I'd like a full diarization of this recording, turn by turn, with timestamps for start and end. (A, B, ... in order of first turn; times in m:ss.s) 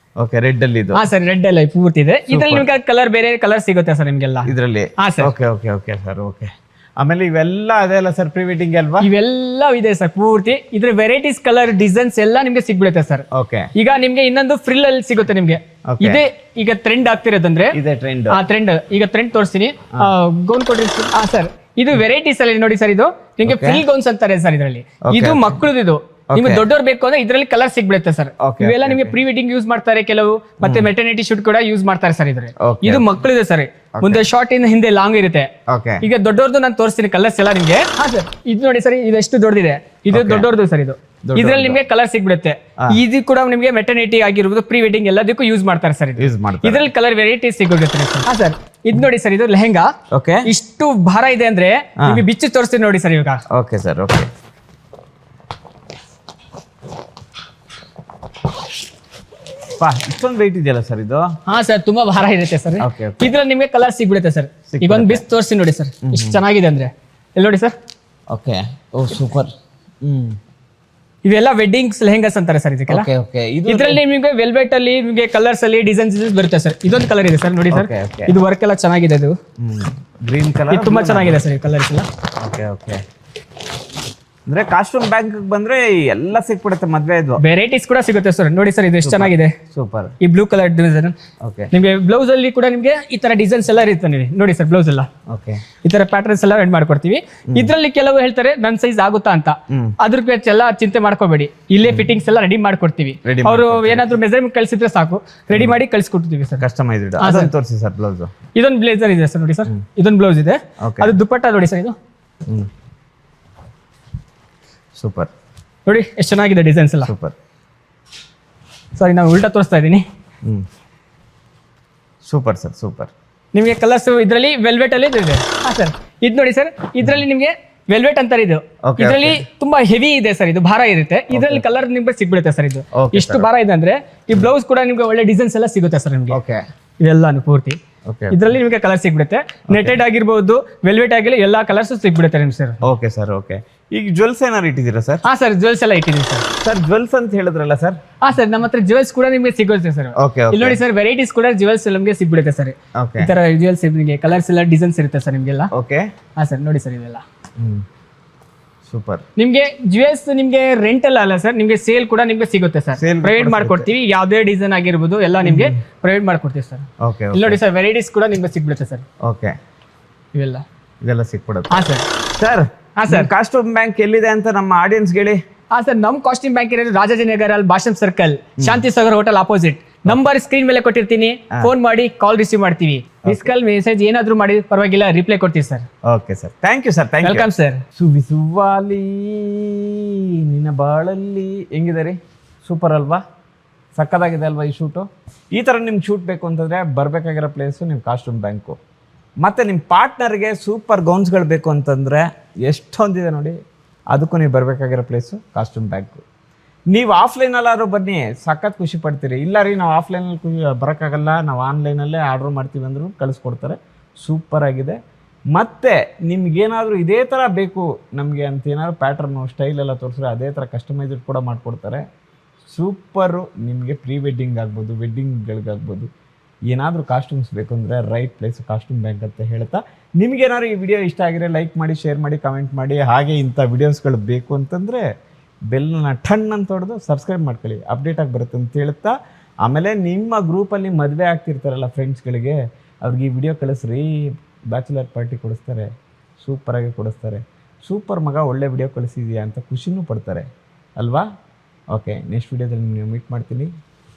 0:00.2-0:01.0 A
0:00.9-0:05.3 B
0:02.3-0:02.7 A
0:04.4-0:09.1 A
0:09.0-0:17.8 B
0:13.3-0:13.7 A
0:15.8-0:16.2 A
0:17.7-0:18.4 A
0:18.3-0:49.9 B
0:23.4-0:23.8 A
0:25.0-0:25.6 A
0:26.3-0:26.6 A
0:28.4-0:29.2 A
0:30.6-0:30.9 A
0:32.6-0:33.2 A
0:33.9-0:34.2 A
0:35.7-0:36.0 A
0:40.1-0:40.5 A
0:41.2-0:41.8 A
0:46.2-0:46.8 A
0:50.1-0:50.5 A
0:50.4-0:53.4 B
0:52.0-0:52.2 A
0:53.5-0:54.3 A
0:59.8-1:01.3 A
1:01.4-1:07.7 B
1:02.8-1:03.3 A
1:04.7-1:05.2 A
1:06.0-1:06.4 A
1:08.3-1:10.4 A
1:11.2-1:13.1 B
1:12.9-1:14.0 A
1:13.7-1:19.3 B
1:17.7-1:18.4 A
1:19.6-1:21.5 A
1:20.7-1:22.1 B
1:22.4-1:23.0 A
1:24.5-1:27.4 A
1:27.4-1:29.5 B
1:29.0-1:30.1 A
1:30.2-1:31.2 B
1:31.4-1:31.7 A
1:31.7-1:35.1 B
1:35.3-1:35.6 A
1:35.8-1:46.6 B
1:39.7-1:39.9 A
1:41.8-1:42.1 A
1:43.2-1:44.2 A
1:45.5-1:45.8 A
1:46.6-1:48.3 A
1:47.2-1:47.5 B
1:48.5-1:52.0 B
1:50.8-1:51.2 A
1:55.0-1:55.3 A
1:55.8-1:57.1 B
1:57.0-1:57.3 A
1:59.0-2:00.0 B
2:02.2-2:03.1 A
2:03.5-2:16.4 B
2:08.8-2:09.4 A
2:11.3-2:11.6 A
2:12.9-2:13.5 A
2:16.3-2:16.6 A
2:17.0-2:17.8 B
2:18.0-2:18.6 A
2:18.3-2:22.8 B
2:19.7-2:20.0 A
2:22.8-2:25.2 A
2:25.2-2:26.4 B
2:26.6-2:28.0 A
2:28.2-2:35.7 B
2:30.2-2:30.8 A
2:33.0-2:33.3 A
2:35.7-2:36.1 A
2:36.4-2:37.2 B
2:37.6-2:37.8 A
2:38.9-2:39.2 A
2:39.4-2:49.0 B
2:43.0-2:43.9 A
2:45.4-2:45.8 A
2:47.0-2:47.6 A
2:49.2-2:49.5 A
2:50.3-2:50.6 B
2:51.0-2:51.8 A
2:51.7-2:52.0 B
2:52.4-2:55.4 A
2:53.0-2:53.3 B
2:55.7-3:05.8 B
2:58.6-2:58.8 A
3:03.2-3:03.5 A
3:06.1-3:13.2 A
3:07.2-3:07.8 B
3:13.9-3:18.8 A
3:19.4-3:23.6 A
3:24.1-3:26.2 A
3:26.9-3:35.0 A
3:35.5-3:42.0 A
3:42.7-3:46.1 A
3:46.7-3:55.0 A
3:55.7-4:05.9 A
4:06.4-4:10.4 A
4:11.0-4:11.2 A
4:11.9-4:13.7 A